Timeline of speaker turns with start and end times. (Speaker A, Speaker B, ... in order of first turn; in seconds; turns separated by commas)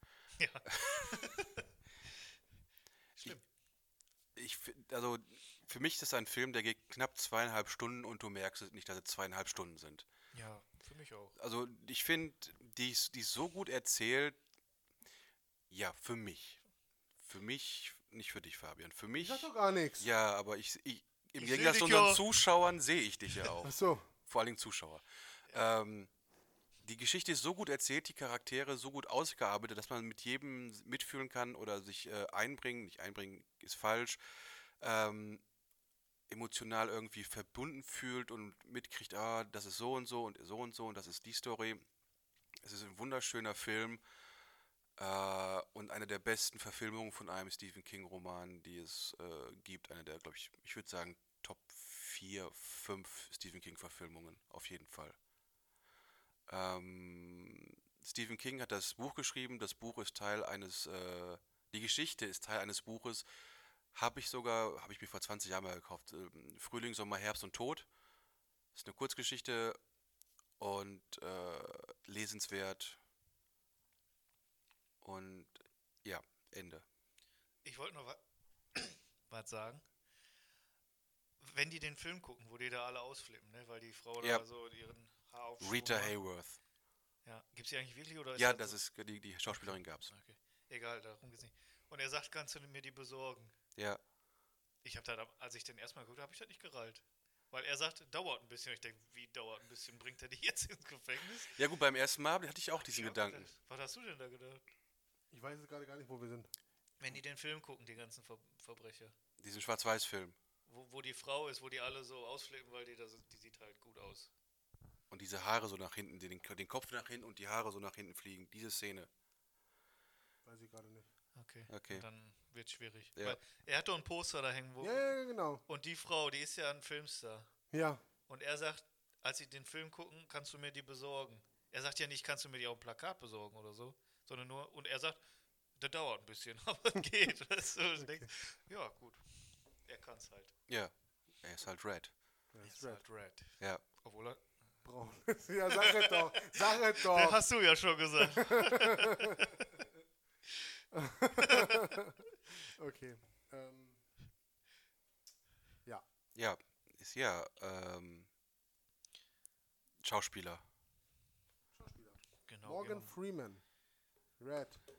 Speaker A: 0.4-1.7, Speaker B: 4.4-10.1, Speaker A: 10.3-11.3, Speaker B: 11.4-14.4, Speaker B: 15.7-16.6, Speaker B: 17.2-19.5, Speaker C: 19.2-20.1, Speaker B: 20.0-26.1, Speaker A: 21.4-22.2, Speaker C: 23.6-24.1, Speaker B: 26.8-34.2, Speaker B: 34.8-35.4, Speaker B: 36.3-41.8, Speaker B: 42.6-44.0, Speaker B: 45.0-55.2, Speaker B: 56.5-63.3, Speaker B: 63.9-67.9, Speaker B: 68.7-69.8, Speaker B: 70.6-73.0, Speaker B: 75.0-75.5, Speaker B: 76.0-76.8, Speaker A: 77.6-78.2, Speaker A: 78.7-79.8, Speaker A: 81.4-86.2, Speaker B: 85.6-86.6, Speaker A: 87.2-88.8, Speaker B: 88.4-90.1, Speaker A: 89.5-93.5, Speaker A: 94.8-101.5, Speaker B: 101.5-103.5, Speaker A: 102.8-104.6, Speaker C: 105.3-106.5, Speaker A: 107.0-109.1, Speaker B: 109.4-110.4, Speaker A: 110.7-114.3, Speaker B: 115.1-119.1, Speaker C: 120.5-121.1, Speaker A: 121.4-125.1, Speaker B: 121.7-122.0, Speaker C: 124.8-125.6, Speaker A: 125.7-127.5, Speaker C: 127.7-128.0, Speaker A: 128.3-135.2, Speaker A: 135.8-140.5, Speaker B: 140.7-142.1, Speaker C: 142.5-143.0, Speaker A: 142.6-144.5, Speaker C: 144.8-147.4, Speaker A: 145.7-149.4, Speaker C: 148.2-149.9, Speaker C: 150.9-154.0, Speaker A: 151.4-152.0, Speaker B: 156.3-158.3, Speaker B: 160.0-160.6, Speaker C: 161.7-163.6, Speaker A: 162.5-163.1, Speaker C: 164.4-164.8